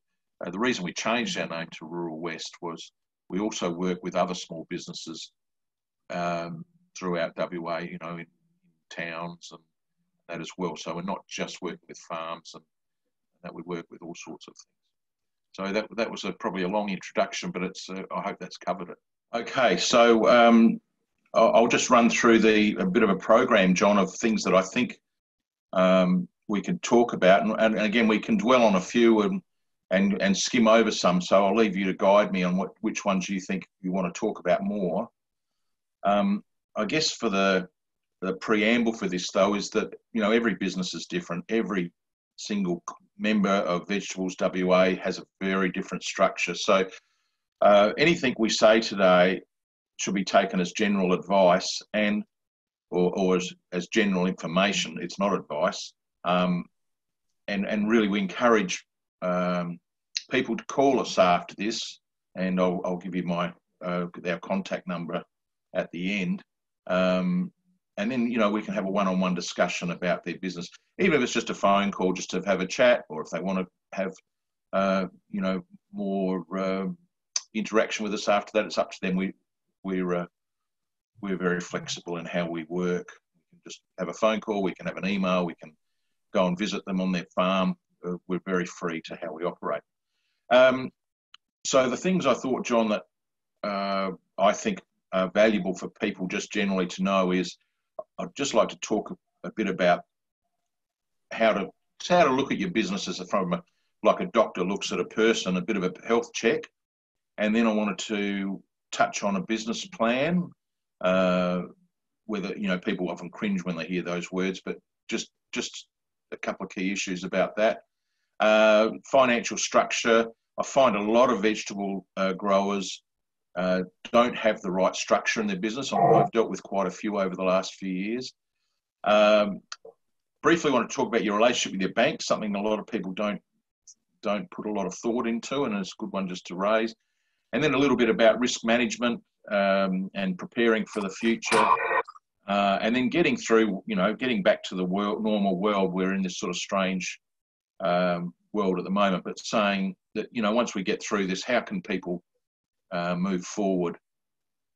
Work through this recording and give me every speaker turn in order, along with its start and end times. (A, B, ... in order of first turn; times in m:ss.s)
0:00.4-0:05.3 A
0:06.1-0:08.3 A
0:08.9-0:09.6 A
0:10.3-0:12.6 A
0:13.4-0:14.8 A
0:15.5-0:20.8 A
0:21.3-0:25.0 A
0:25.7-0:35.1 A
0:36.0-0:37.7 A
0:38.2-0:46.9 A
0:47.6-0:49.4 A
0:50.0-0:52.3 A
0:52.9-0:56.7 A
0:57.5-1:14.2 A
1:14.7-1:17.0 A
1:17.5-1:20.3 A
1:21.2-1:25.8 A
1:26.3-1:29.8 A
1:30.5-1:30.9 A
1:31.6-1:33.0 A
1:33.6-1:37.6 A
1:38.2-1:40.0 A
1:41.3-1:46.7 A
1:47.4-1:51.7 A
1:52.3-1:57.8 A
1:58.4-2:03.0 A
2:03.6-2:08.3 A
2:09.0-2:09.6 A
2:10.4-2:13.4 A
2:14.2-2:17.0 A
2:17.5-2:21.8 A
2:22.5-2:27.2 A
2:27.8-2:32.2 A
2:32.9-2:34.0 A